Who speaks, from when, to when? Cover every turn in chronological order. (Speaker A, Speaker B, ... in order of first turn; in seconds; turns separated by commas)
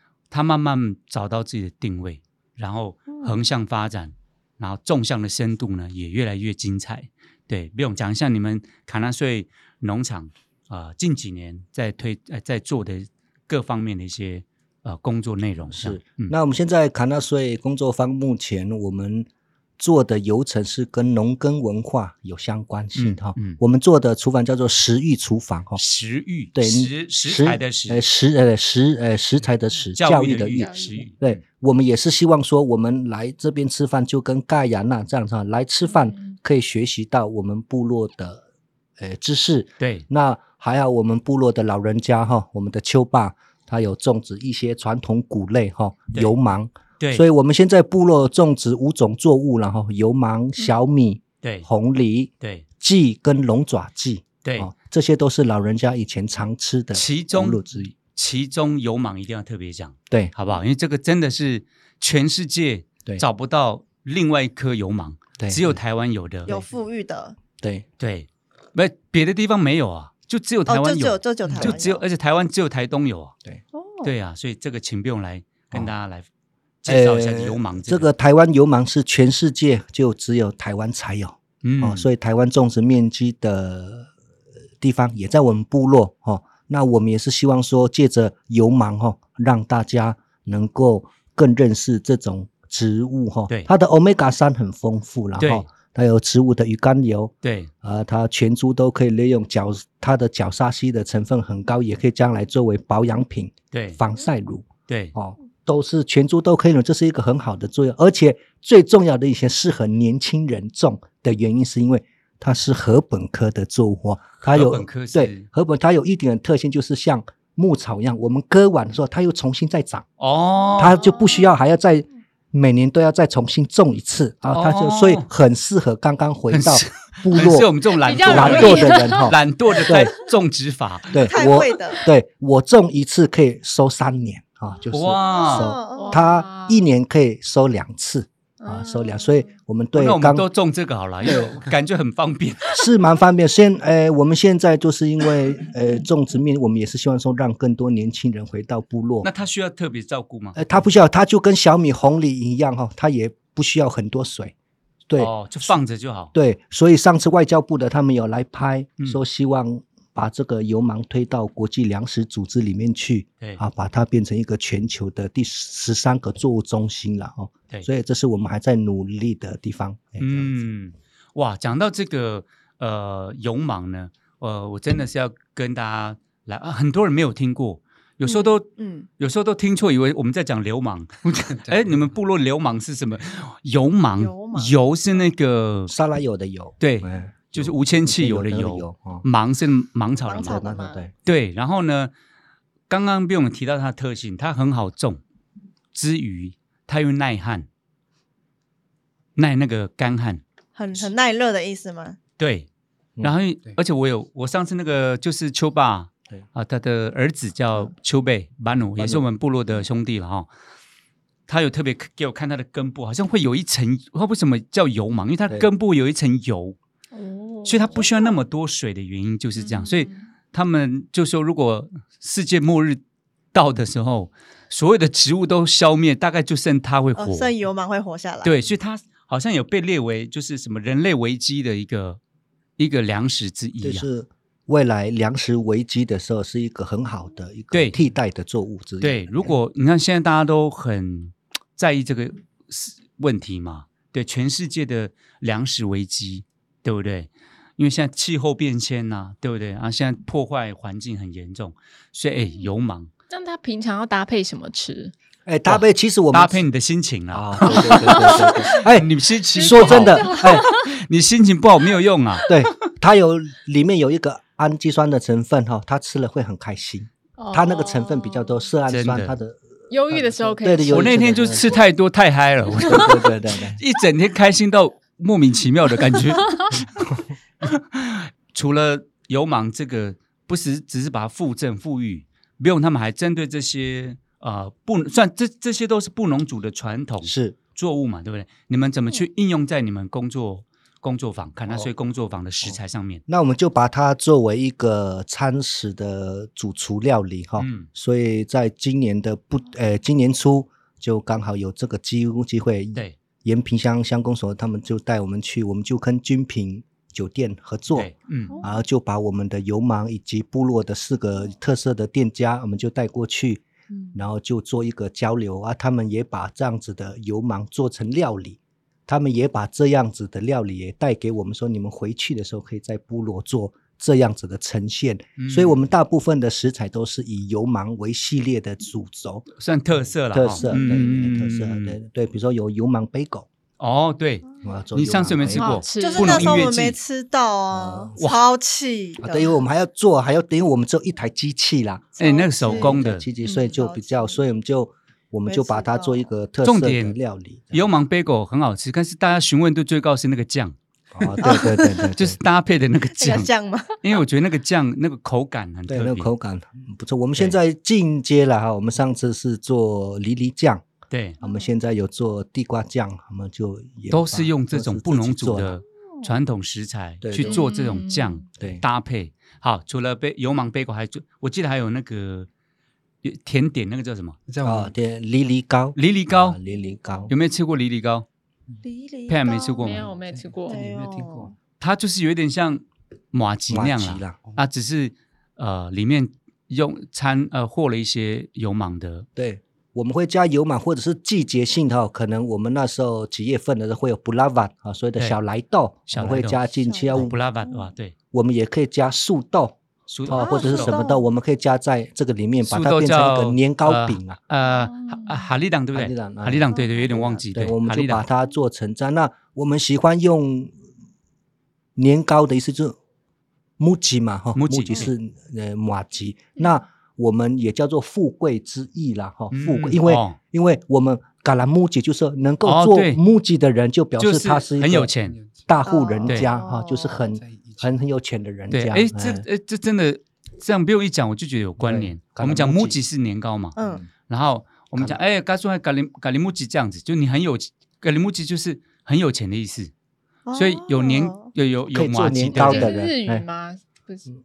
Speaker A: 0.3-16.3, Speaker B: 15.7-19.3, Speaker B: 19.8-25.8, Speaker A: 22.9-23.6, Speaker A: 25.8-28.1, Speaker B: 26.5-38.4, Speaker A: 29.9-31.4, Speaker C: 30.6-31.1, Speaker C: 36.0-36.4, Speaker B: 39.0-57.9, Speaker A: 39.8-40.0, Speaker A: 47.0-47.2, Speaker A: 51.4-51.7, Speaker A: 52.4-52.6, Speaker A: 54.4-54.7, Speaker A: 56.9-66.7, Speaker B: 65.4-65.8, Speaker D: 66.5-67.4, Speaker B: 67.6-67.8, Speaker A: 68.0-73.3, Speaker D: 70.7-72.0, Speaker B: 71.4-71.7, Speaker D: 73.7-74.1, Speaker A: 74.0-76.3, Speaker A: 76.8-78.1, Speaker B: 76.9-84.1, Speaker A: 81.6-82.1, Speaker B: 84.8-120.0, Speaker A: 95.4-95.7, Speaker A: 97.4-97.7, Speaker A: 103.7-104.0, Speaker A: 104.9-105.1, Speaker A: 114.4-115.5, Speaker A: 120.2-121.0, Speaker B: 120.8-130.1, Speaker C: 121.0-121.5, Speaker A: 124.5-125.3, Speaker A: 126.5-131.3, Speaker C: 127.9-129.3, Speaker B: 131.1-140.4, Speaker D: 131.2-132.0, Speaker A: 134.9-135.7, Speaker D: 135.3-136.3, Speaker C: 135.9-136.8, Speaker C: 138.6-139.5, Speaker A: 139.9-142.8, Speaker B: 141.2-141.6, Speaker B: 142.7-149.3, Speaker A: 149.2-150.6, Speaker B: 150.5-154.5, Speaker B: 155.1-155.8, Speaker A: 155.2-156.3, Speaker B: 156.3-170.5, Speaker A: 170.2-185.9, Speaker D: 178.2-179.1, Speaker E: 181.5-182.0, Speaker D: 184.2-184.7, Speaker B: 185.9-189.2, Speaker A: 186.8-190.7, Speaker D: 190.2-191.1, Speaker B: 190.3-191.1, Speaker A: 191.2-192.1, Speaker A: 192.9-195.2, Speaker A: 195.9-197.7, Speaker A: 199.3-200.4, Speaker D: 200.7-202.2, Speaker A: 202.4-202.7, Speaker A: 203.2-210.5, Speaker A: 211.5-216.8, Speaker C: 217.1-218.2, Speaker A: 217.6-223.0, Speaker C: 219.6-220.2, Speaker A: 223.5-227.5, Speaker D: 227.2-228.5, Speaker A: 228.4-232.2, Speaker A: 232.8-234.1, Speaker B: 233.8-239.5, Speaker A: 237.7-238.0, Speaker A: 239.0-253.1, Speaker C: 253.3-255.1, Speaker B: 255.4-256.6, Speaker A: 255.7-262.5, Speaker B: 257.3-260.7, Speaker C: 257.8-258.6, Speaker C: 259.6-260.9, Speaker B: 262.5-271.7, Speaker C: 267.4-268.6, Speaker A: 268.9-269.4, Speaker C: 269.9-271.5, Speaker A: 270.9-273.2, Speaker B: 272.7-273.8, Speaker A: 273.8-276.9, Speaker A: 277.6-293.2, Speaker B: 287.2-287.6, Speaker B: 292.6-313.6, Speaker A: 297.6-297.9, Speaker A: 307.9-308.6, Speaker D: 308.5-308.8, Speaker D: 313.9-314.2, Speaker B: 314.1-329.5, Speaker A: 325.4-325.8, Speaker A: 329.6-332.0, Speaker B: 330.3-333.5, Speaker A: 333.8-337.0, Speaker B: 334.6-335.7, Speaker C: 335.6-336.7, Speaker D: 336.0-339.6, Speaker B: 337.7-338.2, Speaker B: 339.2-347.9, Speaker D: 342.2-344.4, Speaker A: 342.2-343.3, Speaker D: 345.4-346.3, Speaker A: 346.6-347.2, Speaker A: 347.7-351.6, Speaker B: 351.1-352.4, Speaker D: 351.4-352.1, Speaker A: 352.1-356.3, Speaker D: 353.1-354.0, Speaker B: 355.9-360.8, Speaker A: 361.1-361.4, Speaker B: 361.4-365.8, Speaker D: 361.4-361.7, Speaker A: 364.1-372.5, Speaker B: 367.2-367.6, Speaker C: 367.4-368.4, Speaker B: 368.6-368.8, Speaker A: 373.2-374.4, Speaker E: 374.5-374.9, Speaker B: 374.6-377.3, Speaker A: 375.9-376.6, Speaker A: 377.3-378.2, Speaker D: 378.8-379.9, Speaker A: 379.3-380.1, Speaker C: 379.8-380.8, Speaker E: 380.0-381.5, Speaker D: 380.6-381.5, Speaker A: 381.8-389.3, Speaker B: 383.7-384.4, Speaker B: 389.4-397.3, Speaker A: 396.1-398.1, Speaker D: 396.8-397.9, Speaker B: 398.3-404.4, Speaker A: 400.1-401.0, Speaker D: 400.3-401.2, Speaker A: 402.6-408.2, Speaker C: 404.6-405.5, Speaker B: 405.9-406.7, Speaker D: 406.7-407.4, Speaker B: 407.5-410.7, Speaker B: 411.9-413.0, Speaker B: 413.8-425.1, Speaker A: 414.5-415.1, Speaker A: 419.5-420.4, Speaker A: 422.6-423.2, Speaker A: 424.2-425.4, Speaker E: 425.2-425.7, Speaker B: 425.7-429.4, Speaker D: 425.8-427.3, Speaker E: 427.1-427.9, Speaker A: 428.7-433.8, Speaker B: 431.8-433.0, Speaker D: 433.8-434.1, Speaker B: 433.8-434.1, Speaker A: 434.3-439.9, Speaker D: 440.4-441.5, Speaker A: 440.5-443.0, Speaker B: 441.9-443.4, Speaker C: 442.6-444.3